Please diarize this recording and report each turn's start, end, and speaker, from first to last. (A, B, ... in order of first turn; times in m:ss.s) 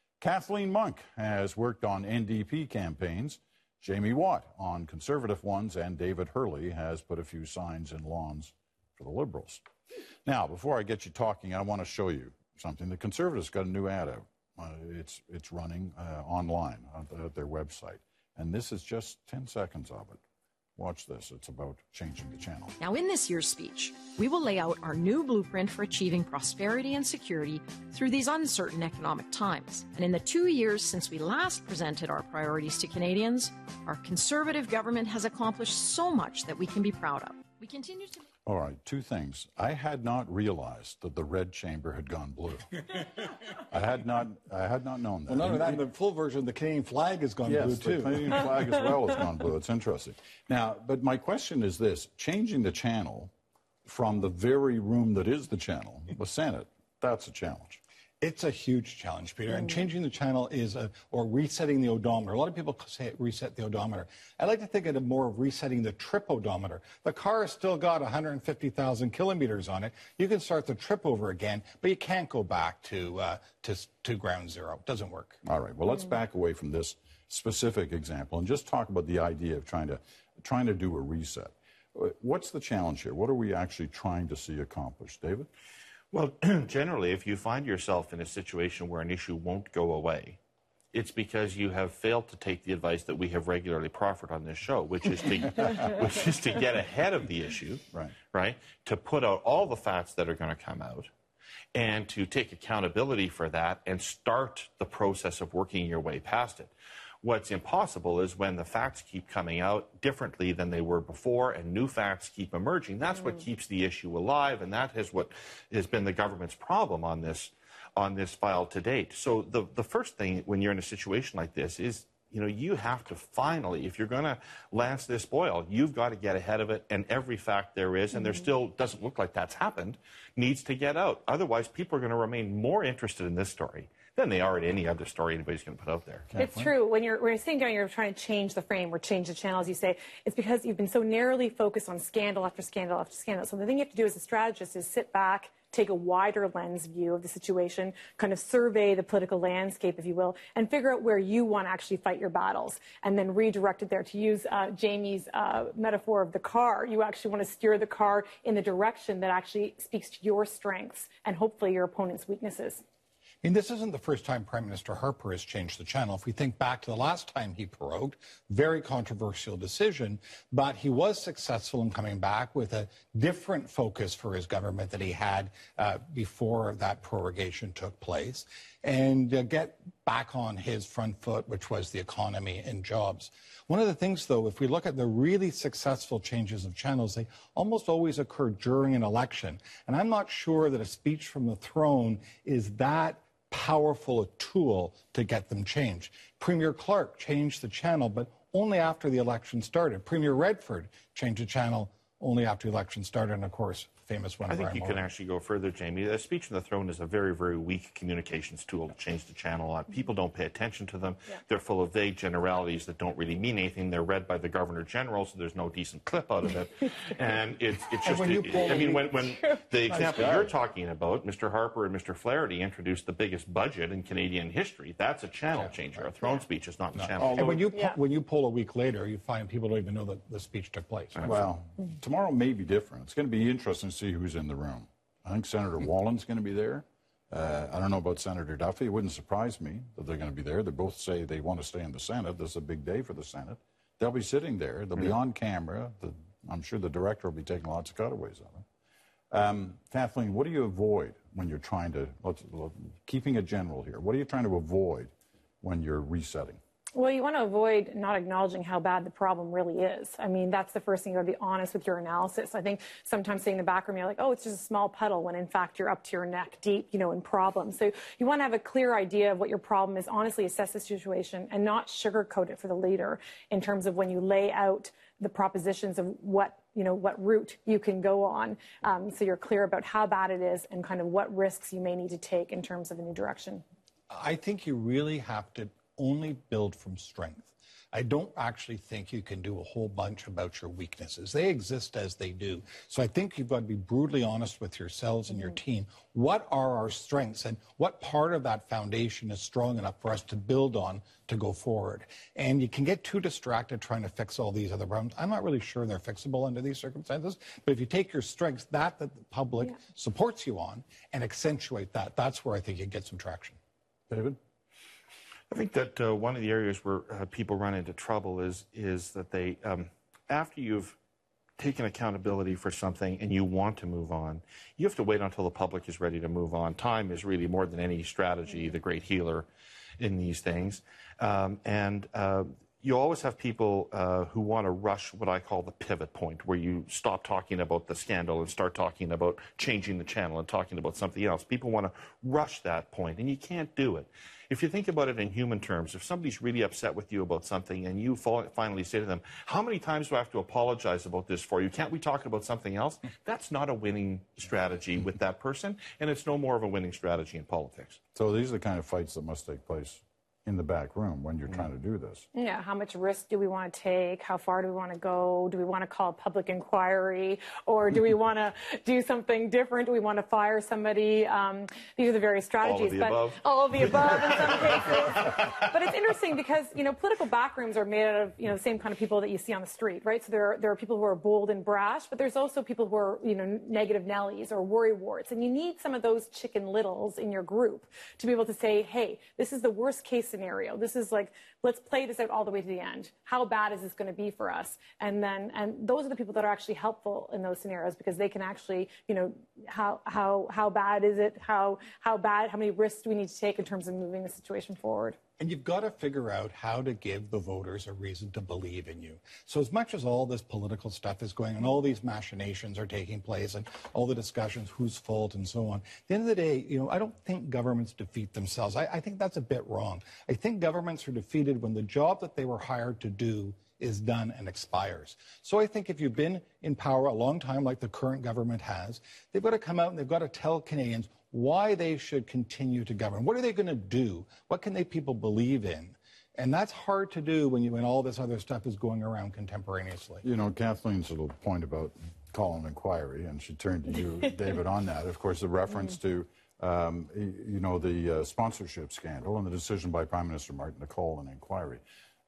0:00.2-0:09.6 A
0:10.2-0:20.2 A
0:20.8-0:22.8 A
0:22.8-0:38.2 B
0:38.4-0:42.7 A
0:43.7-0:45.8 A
0:45.3-0:48.8 C
0:47.4-0:53.3 A
0:53.8-0:57.8 A
0:58.2-1:15.4 C
1:15.4-1:25.5 A
1:26.1-1:30.4 D
1:30.9-1:41.1 D
1:41.7-1:46.7 D
1:47.2-2:16.2 D
2:16.3-2:16.7 A
2:16.4-2:42.8 E
2:43.4-3:25.0 C
3:24.5-3:47.6 D
3:38.0-3:39.1 C
3:39.9-3:40.4 C
3:46.9-3:51.3 C
3:51.2-4:08.6 A
4:09.3-4:16.6 A
4:17.0-4:43.6 E
4:44.1-5:13.6 C
5:14.1-5:14.4 A
5:15.5-5:21.0 D
5:21.6-5:29.4 D
5:30.0-5:58.0 D
5:58.1-6:02.2 A
6:02.3-6:45.2 E
6:12.6-6:14.5 D
6:45.4-7:20.2 C
7:20.2-7:31.8 A